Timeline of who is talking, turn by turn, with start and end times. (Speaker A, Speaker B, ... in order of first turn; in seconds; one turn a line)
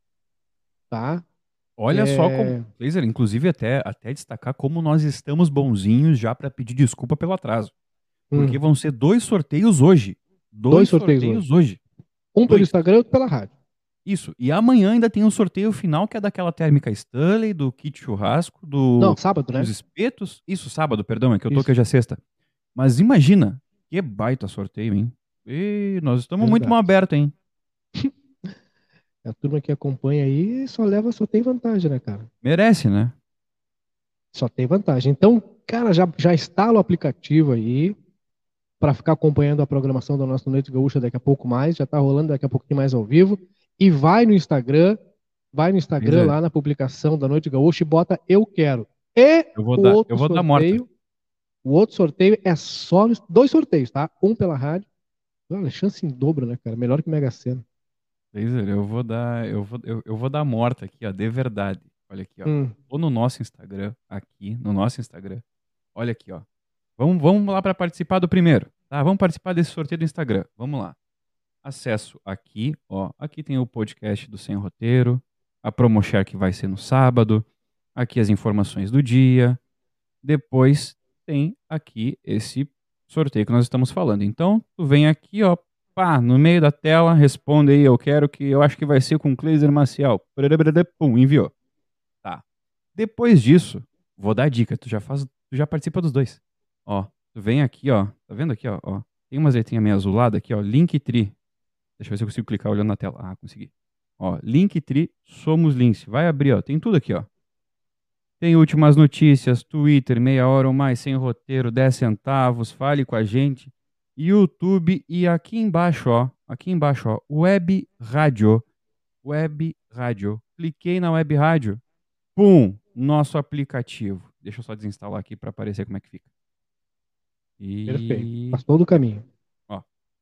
Speaker A: 0.9-1.2
Speaker B: 1.8-7.7
Speaker A: 1.9-2.7
Speaker A: 8.3-8.6
Speaker B: 8.3-11.8
Speaker A: 10.7-11.4
Speaker A: 12.3-13.5
Speaker B: 14.1-22.2
Speaker A: 19.0-19.7
Speaker B: 22.8-27.3
Speaker A: 26.4-26.8
Speaker A: 29.2-32.3
Speaker B: 32.4-33.1
Speaker A: 34.3-38.0
Speaker A: 38.8-45.0
Speaker A: 45.5-50.9
Speaker B: 46.0-46.4
Speaker B: 49.5-50.8
Speaker A: 51.6-54.9
Speaker A: 55.5-57.6
Speaker B: 58.3-65.4
Speaker A: 62.5-62.7
Speaker B: 65.9-66.4
Speaker B: 67.0-70.9
Speaker B: 71.6-77.4
Speaker B: 78.0-79.6
Speaker B: 80.2-91.5
Speaker B: 92.9-101.3
Speaker B: 102.0-107.3
Speaker B: 108.4-118.6
Speaker B: 119.2-121.8
Speaker B: 122.3-126.2
Speaker B: 127.6-128.6
Speaker A: 127.9-129.2